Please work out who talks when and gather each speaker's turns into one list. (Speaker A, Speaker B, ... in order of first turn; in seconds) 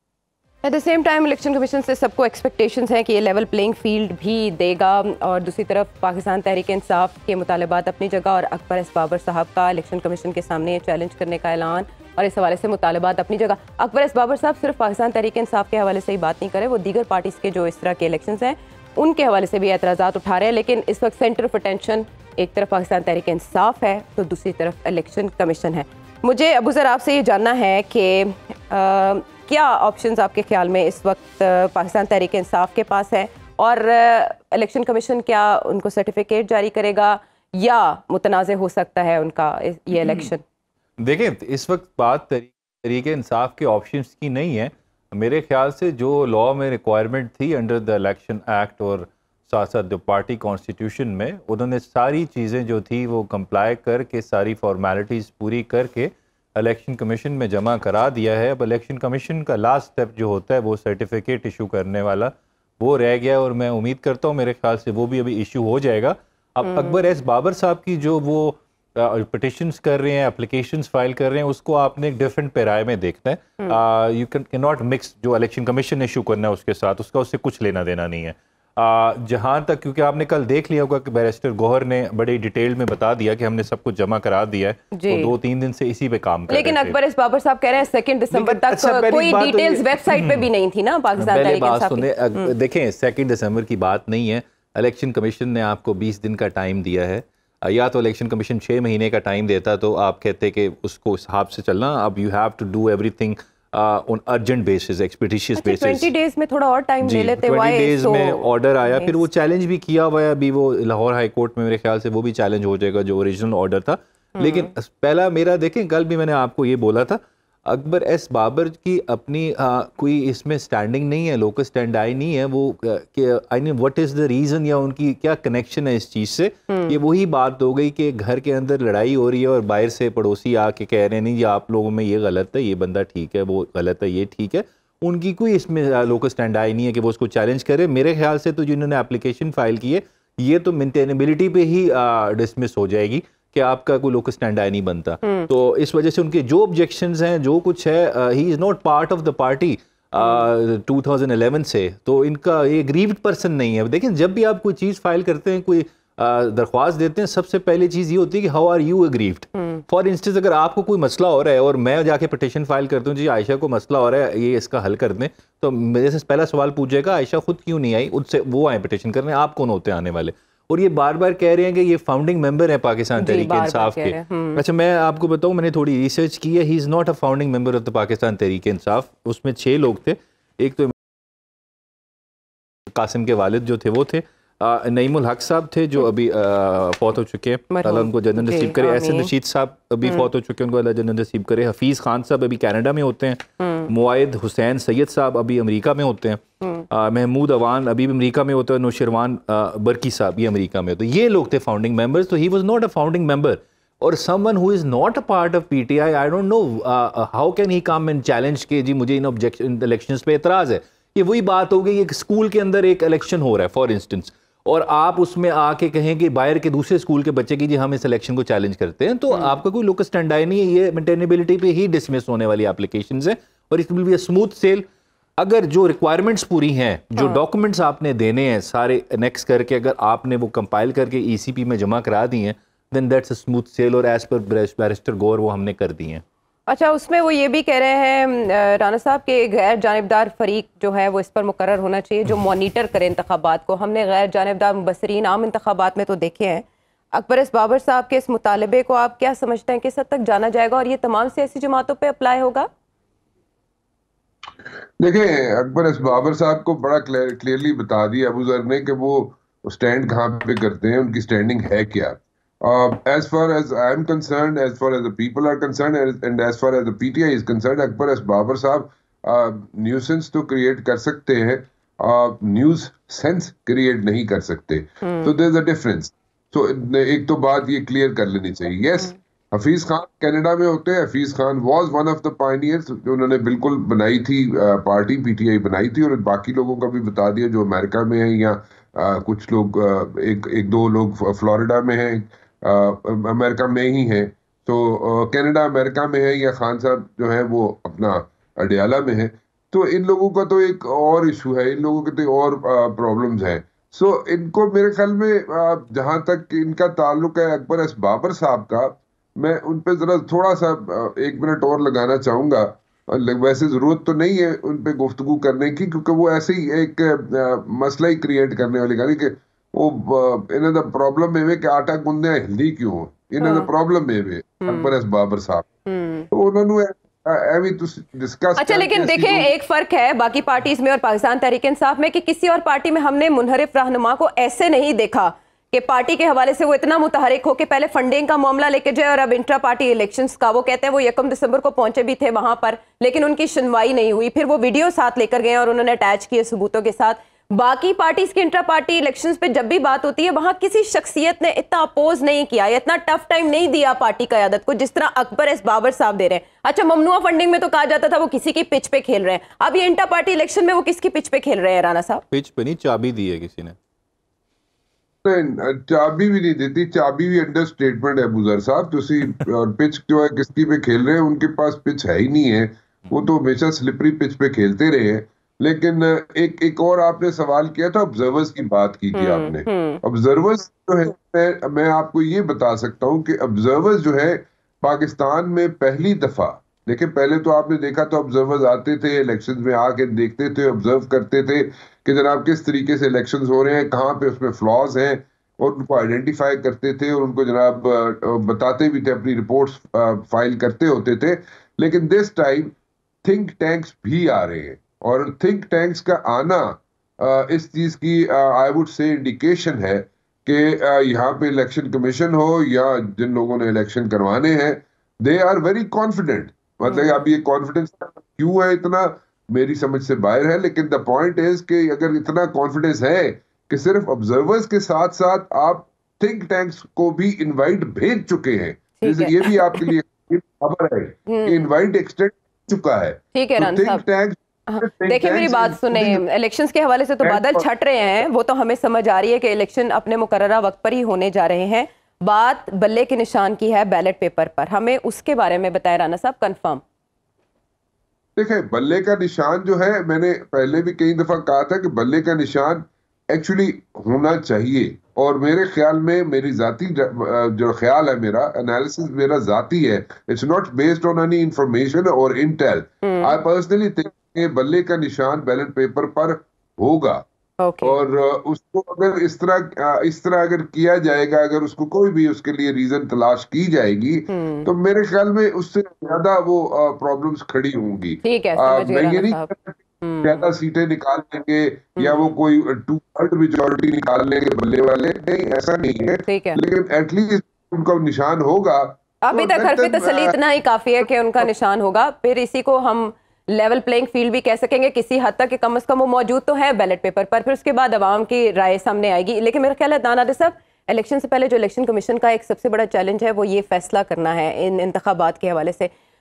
Speaker A: 0.6-40.4, 66.6-67.0, 84.9-85.3, 86.5-92.5, 105.6-109.2, 114.4-114.7, 126.7-127.0, 145.2-145.5, 173.2-174.6, 187.7-189.3, 193.6-193.9, 227.2-227.4, 236.7-252.7, 275.0-275.3, 323.4-323.7, 324.6-324.9, 325.9-326.3, 328.6-362.2, 379.1-380.0, 416.9-417.2, 429.0-429.9, 431.3-431.6, 433.3-434.0, 434.7-446.8, 463.0-463.4, 467.6-468.0, 474.3-474.7, 478.2-479.5, 480.0-480.4, 486.3-486.6, 489.2-505.9
Speaker B: 41.0-87.0, 88.3-90.5, 91.2-106.1, 107.0-180.9, 182.9-224.9, 225.4-236.2, 362.3-363.8
Speaker C: 255.0-325.7, 326.3-329.5, 365.2-436.2, 437.2-437.6, 448.4-467.2, 467.8-490.3